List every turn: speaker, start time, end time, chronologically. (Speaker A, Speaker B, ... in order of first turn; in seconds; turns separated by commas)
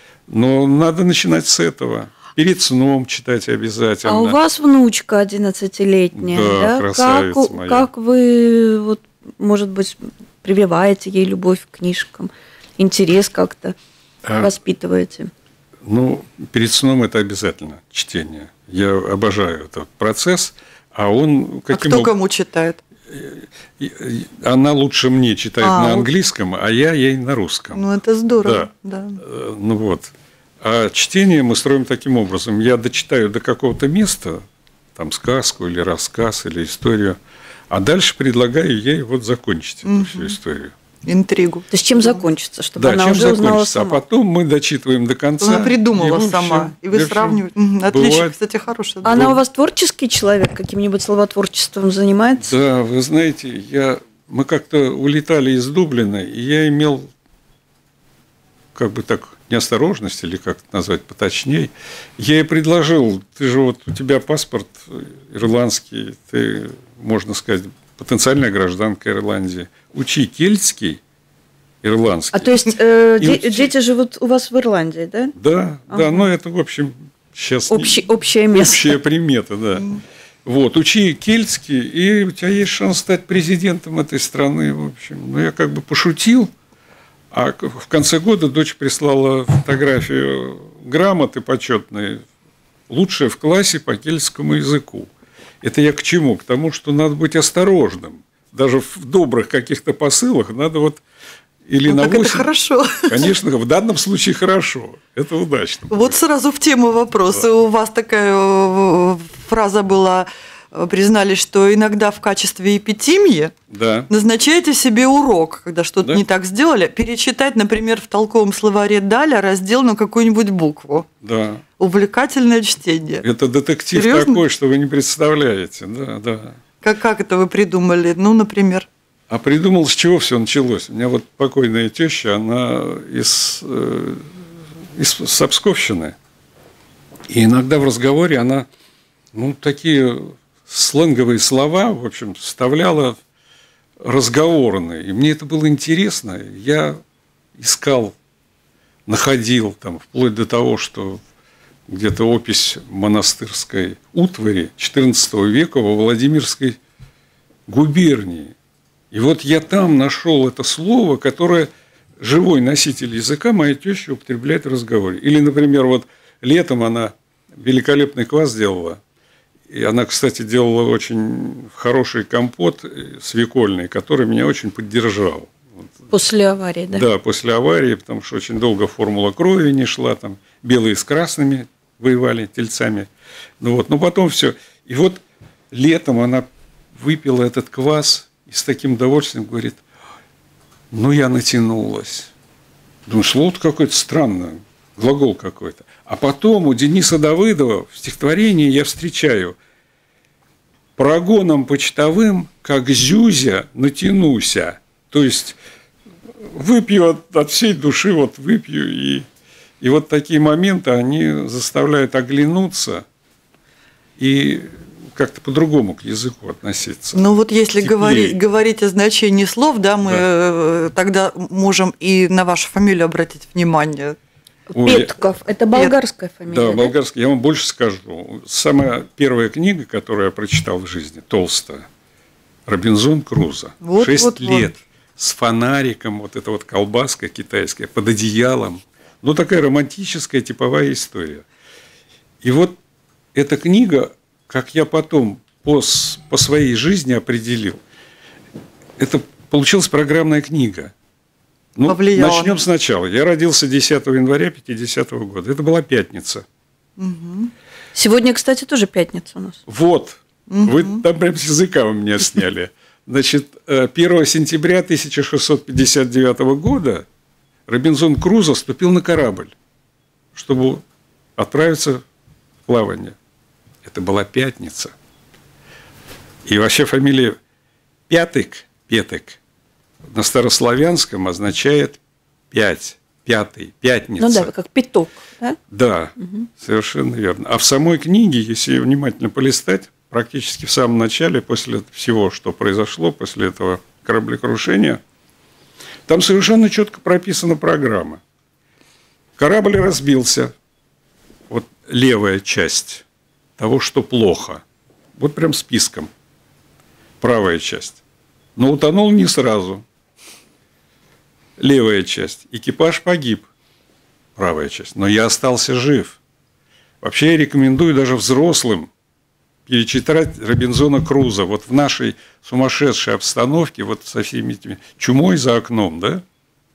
Speaker A: 0.3-4.4, Speaker B: 4.0-13.8, Speaker A: 6.1-7.9, Speaker A: 14.2-14.5, Speaker B: 14.4-15.3, Speaker A: 15.8-22.1, Speaker C: 21.7-22.8, Speaker A: 23.1-27.8, Speaker C: 25.6-26.1, Speaker C: 27.7-29.2, Speaker A: 28.4-34.4, Speaker A: 34.9-37.2, Speaker A: 37.7-40.7, Speaker C: 39.8-40.4, Speaker C: 41.0-42.2, Speaker B: 41.7-44.0, Speaker A: 42.8-48.3, Speaker C: 45.4-49.2, Speaker B: 49.0-52.5, Speaker A: 49.0-49.4, Speaker A: 52.4-57.1, Speaker A: 58.7-71.0, Speaker A: 71.8-73.7, Speaker B: 72.3-75.3, Speaker A: 75.3-79.9, Speaker B: 75.9-76.2, Speaker B: 77.7-78.9, Speaker A: 80.4-86.5, Speaker A: 87.3-92.2, Speaker A: 92.9-95.1, Speaker A: 95.6-101.0, Speaker A: 101.7-102.5, Speaker C: 101.9-103.3, Speaker A: 103.1-106.2, Speaker C: 105.9-113.5, Speaker A: 113.7-114.1, Speaker C: 114.1-121.1, Speaker A: 121.2-121.6, Speaker C: 121.8-123.3, Speaker A: 123.2-126.6, Speaker C: 123.9-124.4, Speaker C: 126.8-128.9, Speaker A: 129.3-134.3, Speaker A: 134.9-136.2, Speaker A: 137.3-138.7, Speaker A: 139.3-143.2, Speaker A: 144.0-147.0, Speaker A: 147.6-148.1, Speaker A: 149.1-151.2, Speaker A: 151.9-156.8, Speaker A: 157.7-158.5, Speaker A: 159.1-169.0, Speaker A: 169.7-175.9, Speaker B: 176.1-177.1, Speaker A: 176.9-183.1, Speaker A: 183.6-189.8, Speaker A: 190.9-192.3, Speaker A: 193.1-199.6, Speaker A: 201.0-205.6, Speaker A: 206.4-209.3, Speaker A: 209.8-213.1, Speaker A: 214.2-217.2, Speaker C: 217.1-224.2, Speaker A: 217.8-218.4, Speaker B: 224.7-226.9, Speaker A: 224.7-225.1, Speaker A: 226.5-231.9, Speaker A: 232.7-241.4, Speaker C: 233.8-234.7, Speaker A: 242.4-242.8, Speaker A: 243.3-247.8, Speaker A: 249.0-250.9, Speaker A: 251.8-256.4, Speaker C: 251.8-252.6, Speaker C: 257.0-257.5, Speaker B: 257.9-259.6, Speaker A: 259.7-267.1, Speaker C: 260.5-261.0, Speaker A: 267.7-269.5, Speaker A: 270.3-270.8, Speaker A: 271.4-272.0, Speaker A: 272.7-273.1, Speaker A: 273.8-274.9, Speaker A: 276.4-277.4, Speaker A: 278.1-279.4, Speaker A: 280.1-282.0, Speaker A: 282.5-284.5, Speaker B: 284.2-285.6, Speaker A: 285.7-295.0, Speaker A: 296.1-298.2, Speaker A: 299.4-300.5, Speaker A: 301.5-303.0, Speaker A: 303.6-304.6, Speaker A: 305.1-306.1, Speaker A: 307.2-308.0, Speaker A: 308.6-309.8, Speaker A: 311.6-313.5, Speaker A: 314.4-316.2, Speaker A: 317.0-318.9, Speaker A: 319.6-326.2